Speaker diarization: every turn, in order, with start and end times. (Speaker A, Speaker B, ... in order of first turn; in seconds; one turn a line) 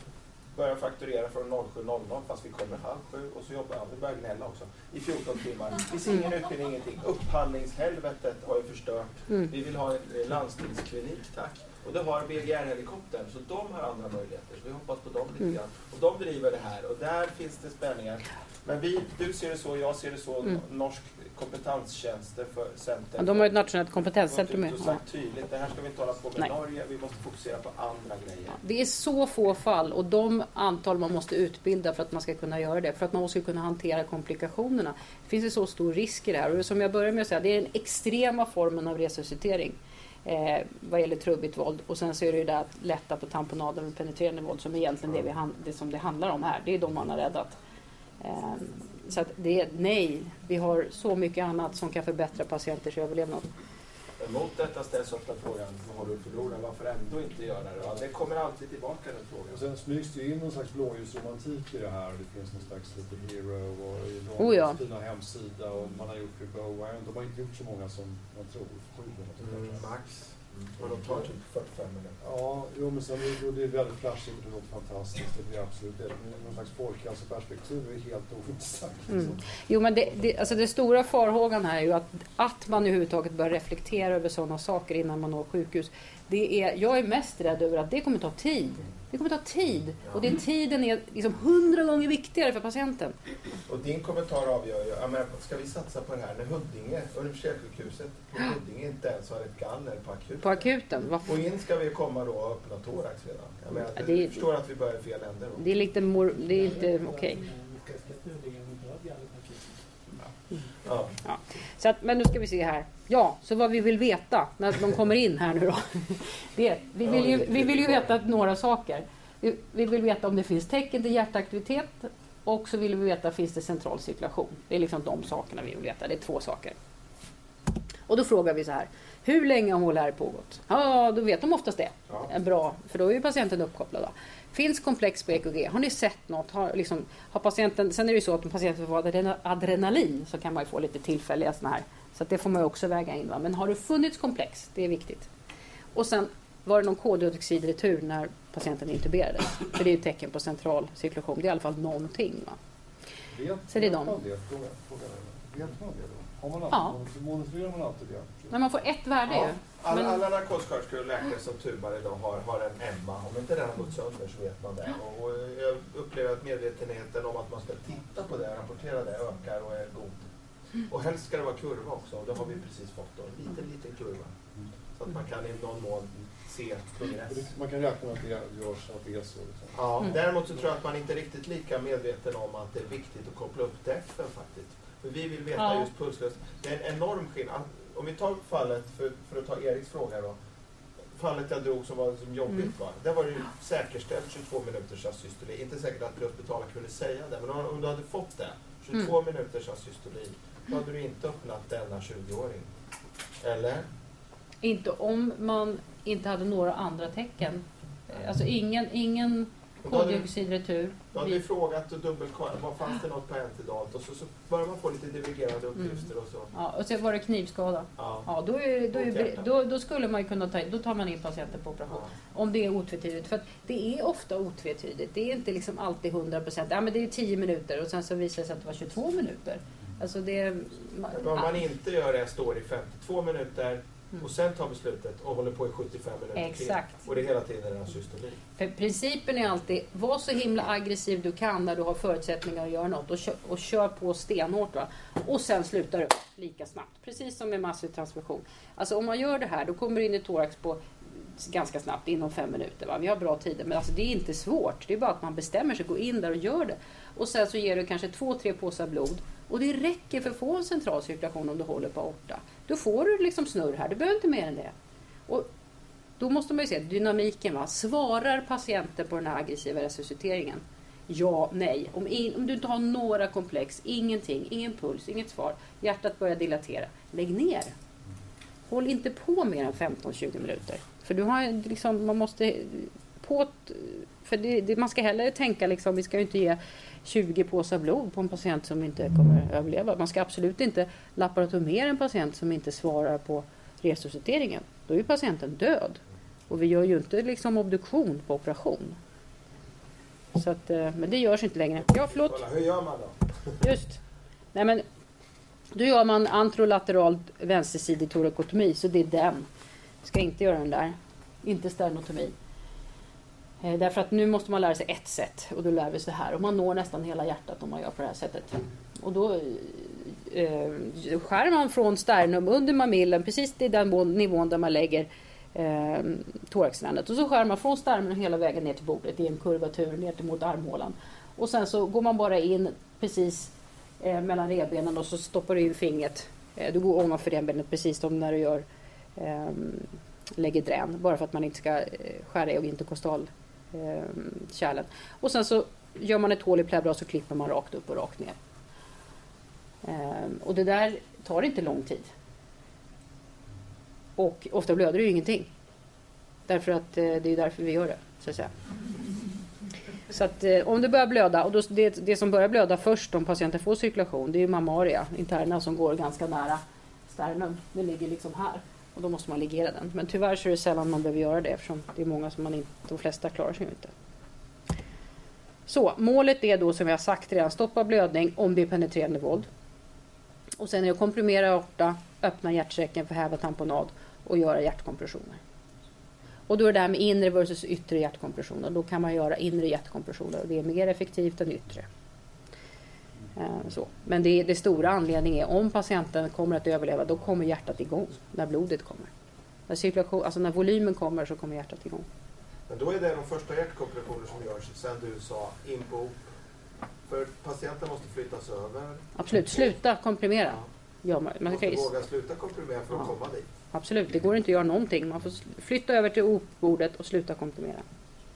Speaker A: 0.5-23.7
Speaker B: 23.2-25.0
Speaker A: 24.3-28.6
Speaker B: 28.6-47.5
Speaker B: 48.2-53.5
Speaker A: 54.2-59.6
Speaker C: 59.5-69.9
Speaker B: 64.4-64.8
Speaker A: 69.4-72.2
Speaker C: 72.2-80.4
Speaker B: 79.1-93.2
Speaker A: 90.0-90.3
Speaker A: 93.7-100.7
Speaker B: 100.4-101.3
Speaker A: 101.2-105.7
Speaker B: 103.7-104.4
Speaker B: 105.6-107.4
Speaker A: 110.8-111.1
Speaker B: 111.2-126.7
Speaker A: 117.0-118.1
Speaker B: 128.1-145.3
Speaker B: 145.9-152.6
Speaker C: 153.3-158.6
Speaker B: 153.7-154.1
Speaker B: 156.7-157.0
Speaker B: 158.5-160.2
Speaker A: 159.3-170.3
Speaker A: 170.9-174.3
Speaker A: 174.9-177.5
Speaker C: 177.1-179.9
Speaker A: 179.7-190.4
Speaker B: 185.6-185.9
Speaker A: 191.1-202.7
Speaker A: 203.4-203.9
Speaker B: 204.6-211.4
Speaker A: 209.8-210.3
Speaker A: 211.1-216.5
Speaker B: 215.8-231.6
Speaker A: 218.0-218.3
Speaker A: 218.9-219.5
Speaker A: 221.9-222.1
Speaker A: 231.2-238.4
Speaker B: 236.3-237.0
Speaker B: 238.6-250.8
Speaker B: 251.4-264.7
Speaker B: 266.2-277.7
Speaker B: 278.7-299.0
Speaker B: 300.3-302.4
Speaker A: 301.8-303.6
Speaker B: 303.6-304.0
Speaker B: 304.5-304.8
Speaker B: 305.7-309.5
Speaker B: 310.0-312.3
Speaker B: 313.6-338.6
Speaker B: 339.2-348.4
Speaker B: 349.8-352.1
Speaker B: 354.2-355.5
Speaker B: 356.5-358.5
Speaker B: 360.1-373.9
Speaker B: 375.7-379.5
Speaker B: 380.6-385.4
Speaker B: 386.5-391.9
Speaker B: 393.4-399.1
Speaker B: 399.7-402.1
Speaker A: 402.7-406.2
Speaker A: 407.1-409.1
Speaker B: 409.2-411.9
Speaker A: 411.4-413.5
Speaker B: 413.7-417.8